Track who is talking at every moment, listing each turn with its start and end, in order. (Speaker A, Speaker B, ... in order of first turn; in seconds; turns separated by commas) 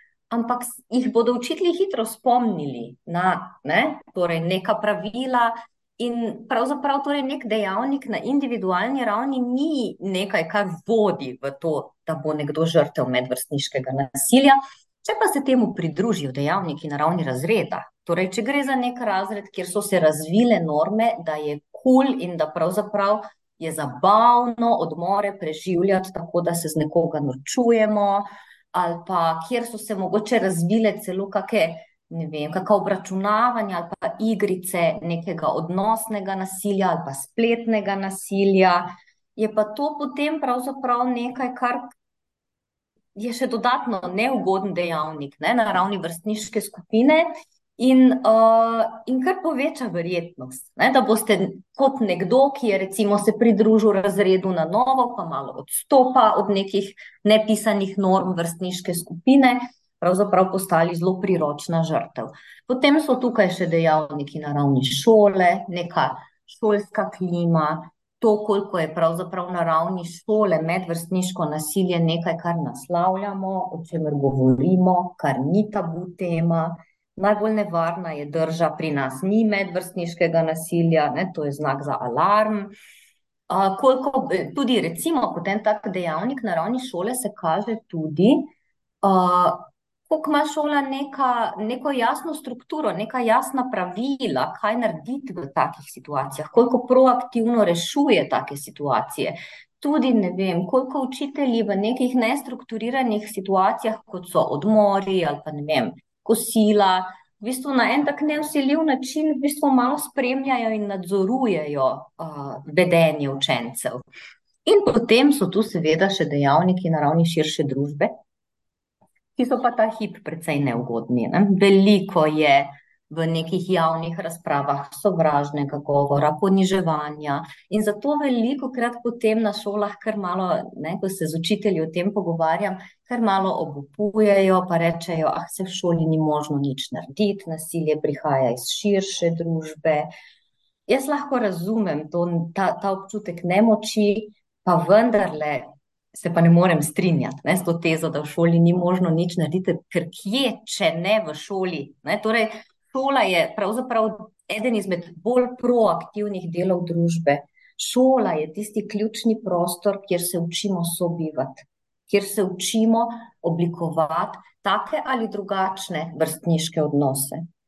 Speaker A: 0.3-41.8, Speaker A: 43.1-82.7, Speaker A: 83.5-114.0, Speaker A: 114.7-118.1, Speaker A: 119.4-140.1, Speaker A: 140.9-167.5